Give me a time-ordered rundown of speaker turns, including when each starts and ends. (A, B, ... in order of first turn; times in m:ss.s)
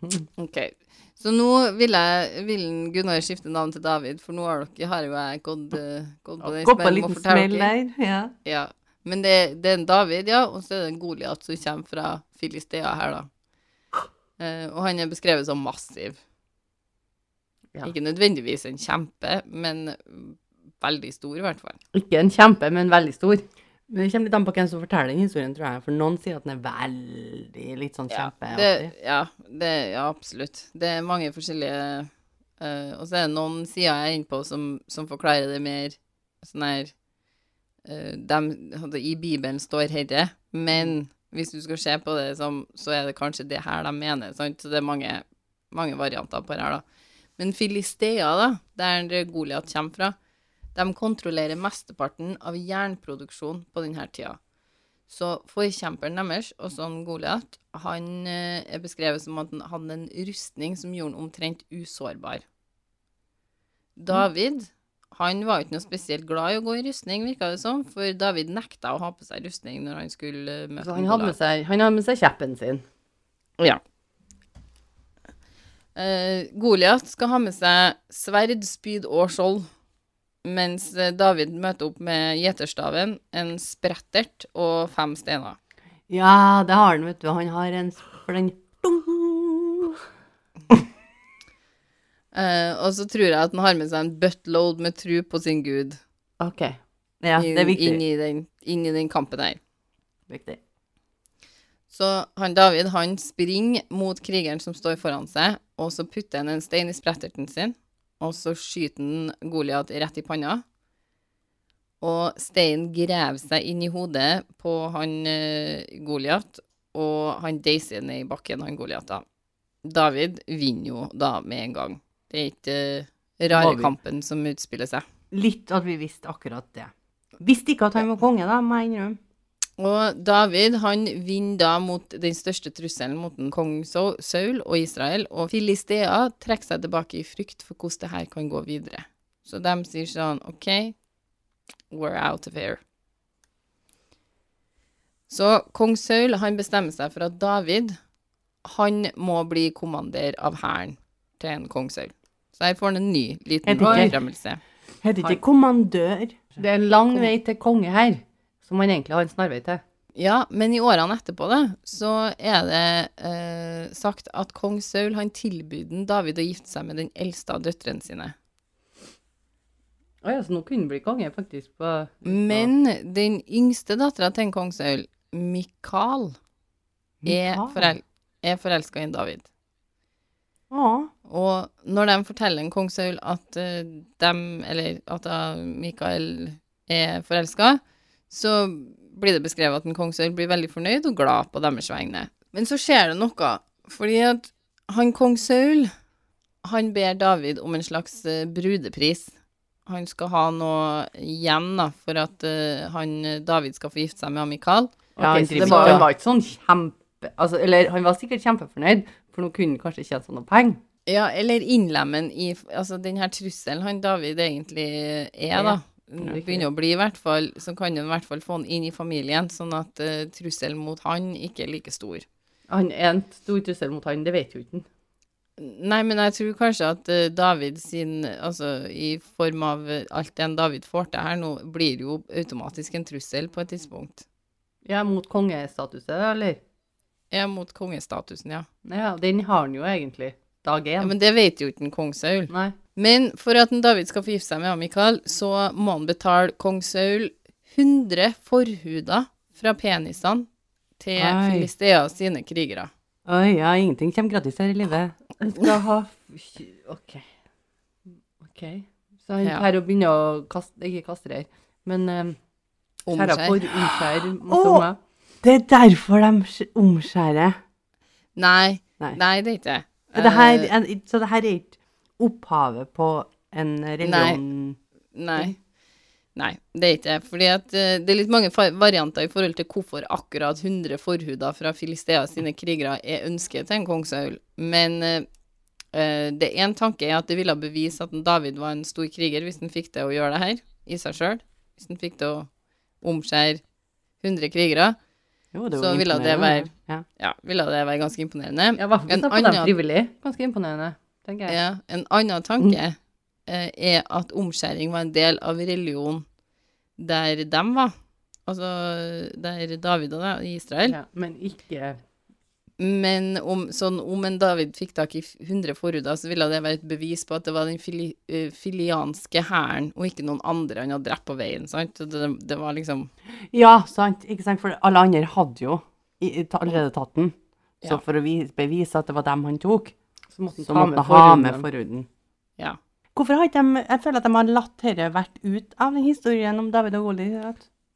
0:00.4-0:07.7 A
0:06.4-0:08.3 B
0:08.4-0:13.3 A
0:14.4-0:16.2 A
0:17.8-0:21.8 A
0:21.9-0:23.4 C
0:23.9-0:28.9 B
0:28.1-0:32.1 A
0:32.6-0:36.9 A
0:37.8-0:46.8 A
0:47.4-0:50.1 A
0:50.7-0:54.4 A
0:55.1-1:02.4 A
1:04.0-1:11.3 A
1:10.8-1:12.8 C
1:15.9-1:19.7 A
1:20.4-1:25.6 A
1:26.1-1:30.0 B
1:32.3-1:36.0 A
1:36.4-1:36.8 C
1:37.2-1:38.0 B
1:37.4-1:39.6 A
1:40.3-1:40.6 B
1:41.9-1:50.6 A
1:52.0-1:59.2 A
1:59.8-2:05.0 A
2:03.5-2:03.9 B
2:05.3-2:09.2 B
2:09.8-2:21.0 A
2:21.9-2:22.8 A
2:25.3-2:28.0 A
2:28.6-2:34.6 A
2:33.6-2:34.2 B
2:33.8-2:34.1 C
2:35.0-2:36.4 B
2:36.6-2:39.8 C
2:40.2-2:48.3 A
2:50.2-2:52.7 C
2:52.2-2:56.4 A
2:57.2-2:57.9 B
2:57.2-2:59.5 A
3:00.7-3:01.1 B
3:01.2-3:15.9 A
3:16.6-3:19.3 A
3:19.8-3:25.0 A
3:25.2-3:30.8 C
3:25.2-3:26.1 B
3:25.6-3:26.0 A
3:31.1-3:42.2 A
3:36.2-3:36.6 B
3:42.7-3:44.8 C
3:45.6-3:54.2 A
3:54.8-3:56.6 C
3:57.3-3:58.7 A
3:58.8-4:01.1 C
4:01.0-4:10.5 A
4:02.5-4:02.7 C
4:11.0-4:12.9 A
4:11.2-4:11.7 B
4:13.2-4:15.2 B
4:15.4-4:17.2 C
4:18.4-4:22.4 C
4:23.0-4:23.6 A
4:23.1-4:25.0 C
4:24.4-4:24.9 B
4:25.4-4:27.6 B
4:28.4-4:30.7 A
4:30.1-4:34.8 B
4:34.0-4:34.4 A
4:35.1-4:35.6 A
4:36.3-4:45.3 A
4:45.9-4:52.5 A
4:53.0-4:53.6 A
4:54.2-4:55.0 A
4:55.5-4:57.0 B
4:55.8-4:59.7 A
4:58.8-5:01.6 C
5:01.5-5:06.2 A
5:07.0-5:07.9 A
5:08.5-5:11.0 A
5:10.9-5:12.0 C
5:12.8-5:23.1 A
5:23.5-5:29.9 B
5:30.3-5:31.6 C
5:30.6-5:32.1 B
5:33.1-5:37.6 B